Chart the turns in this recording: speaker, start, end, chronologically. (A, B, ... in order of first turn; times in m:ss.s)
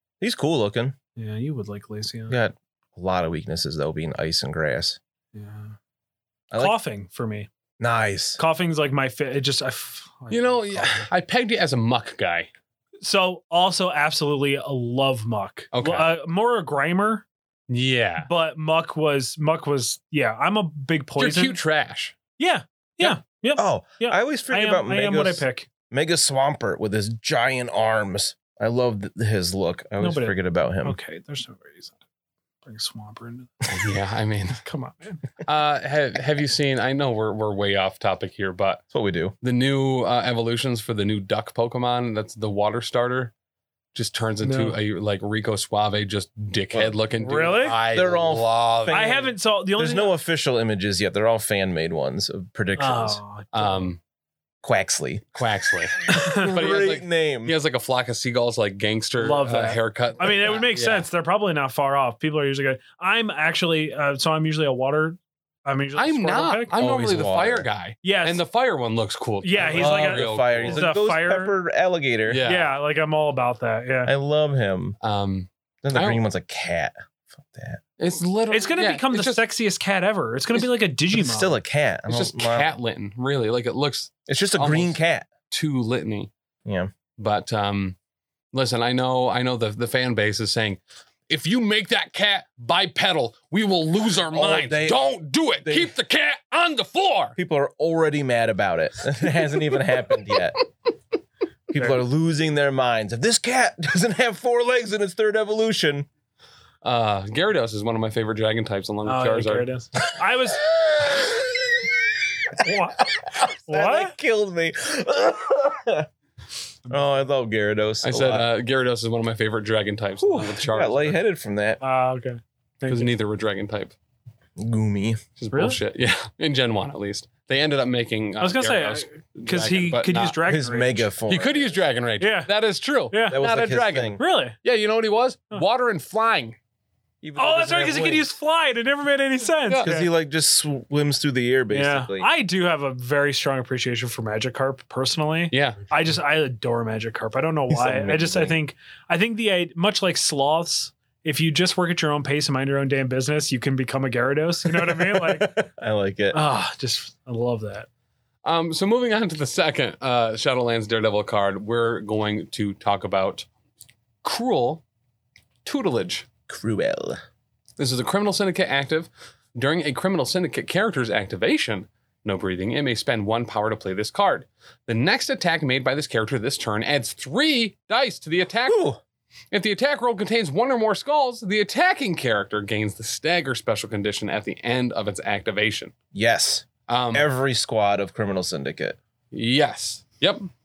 0:00.2-0:01.0 A
0:01.2-0:02.4 B
0:02.3-0:05.0 A
0:05.3-0:05.7 B
0:06.5-0:07.5 B
0:07.8-0:08.4 A
0:08.4-0:11.0 B
0:10.3-0:12.5 C
0:13.0-0:17.2 B
0:15.7-0:16.1 C
0:17.7-0:18.3 C
0:18.2-0:21.6 B
0:21.2-0:22.1 C
0:22.4-0:25.6 B
0:23.0-0:31.0 A
0:30.0-0:32.0 B
0:32.6-0:33.5 B
0:33.7-0:34.6 C
0:34.6-0:35.2 B
0:35.4-0:38.8 C
0:38.9-0:39.3 A
0:39.4-0:43.3 C
0:43.9-0:49.2 C
0:44.4-0:44.8 B
0:47.2-0:47.8 B
0:47.9-0:53.2 A
0:48.9-0:50.1 B
0:52.8-0:53.9 B
0:53.5-0:54.0 C
0:54.6-0:55.4 A
0:55.3-1:01.0 C
0:56.0-0:57.5 A
0:56.1-0:56.5 B
0:59.2-1:06.7 B
1:06.0-1:10.8 C
1:06.8-1:07.7 A
1:08.0-1:08.4 B
1:09.4-1:11.6 B
1:09.6-1:12.4 A
1:12.3-1:12.7 C
1:12.4-1:14.1 B
1:14.0-1:15.0 A
1:15.0-1:16.2 C
1:15.8-1:17.8 A
1:18.0-1:19.4 C
1:18.5-1:21.6 B
1:21.1-1:22.7 A
1:22.1-1:25.0 C
1:24.3-1:25.3 A
1:25.5-1:26.3 C
1:26.6-1:26.9 A
1:27.2-1:28.0 C
1:28.5-1:37.4 C
1:34.3-1:35.0 A
1:35.6-1:35.9 A
1:37.4-1:40.6 A
1:41.7-1:46.1 A
1:46.8-1:49.7 C
1:49.0-1:50.6 B
1:50.6-1:51.9 A
1:52.6-1:54.1 B
1:53.2-1:56.1 A
1:56.9-1:58.5 A
1:58.0-2:01.2 C
2:00.2-2:01.8 A
2:01.8-2:03.1 B
2:02.9-2:03.9 C
2:04.6-2:05.2 A
2:05.4-2:10.4 C
2:05.5-2:05.8 B
2:08.4-2:11.1 B
2:10.5-2:11.8 A
2:11.3-2:16.6 C
2:12.2-2:12.5 B
2:13.1-2:13.4 B
2:13.3-2:14.2 A
2:14.2-2:14.6 B
2:17.2-2:18.3 A
2:17.4-2:20.1 B
2:19.8-2:22.3 A
2:21.7-2:35.7 B
2:25.5-2:25.8 C
2:27.7-2:28.6 A
2:34.7-2:36.4 A
2:36.3-2:37.9 B
2:38.4-2:43.4 C
2:44.2-2:44.8 C
2:45.6-2:46.3 C
2:46.5-2:47.2 A
2:47.8-2:58.8 C
2:58.7-2:59.0 A
2:59.5-3:05.9 C
3:06.1-3:09.0 A
3:06.9-3:07.2 C
3:09.3-3:10.5 C